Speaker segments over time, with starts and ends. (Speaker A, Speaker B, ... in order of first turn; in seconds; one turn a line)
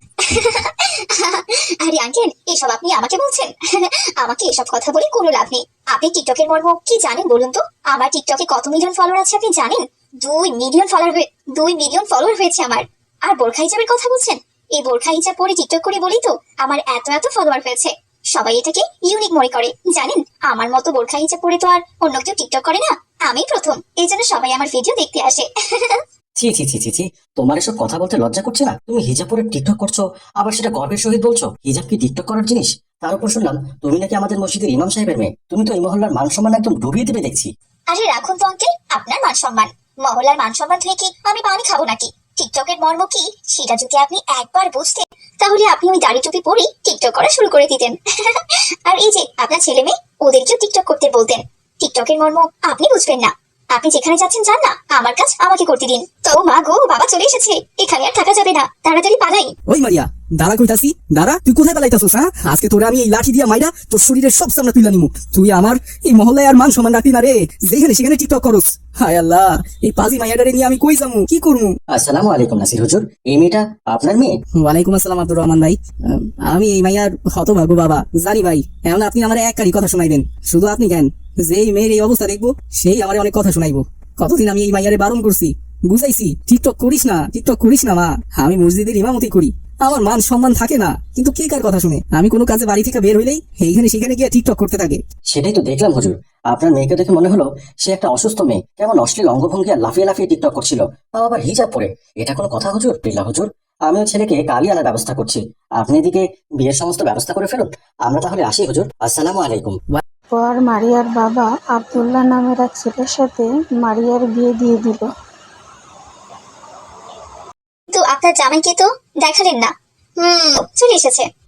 Speaker A: 0.2-26.0
Speaker B: 26.4-37.5
Speaker A: 37.9-59.5
Speaker C: 59.7-71.8
Speaker B: 71.9-74.4
Speaker C: 74.5-95.0
Speaker B: 95.3-109.8
Speaker D: 110.3-115.1
Speaker A: 117.9-121.3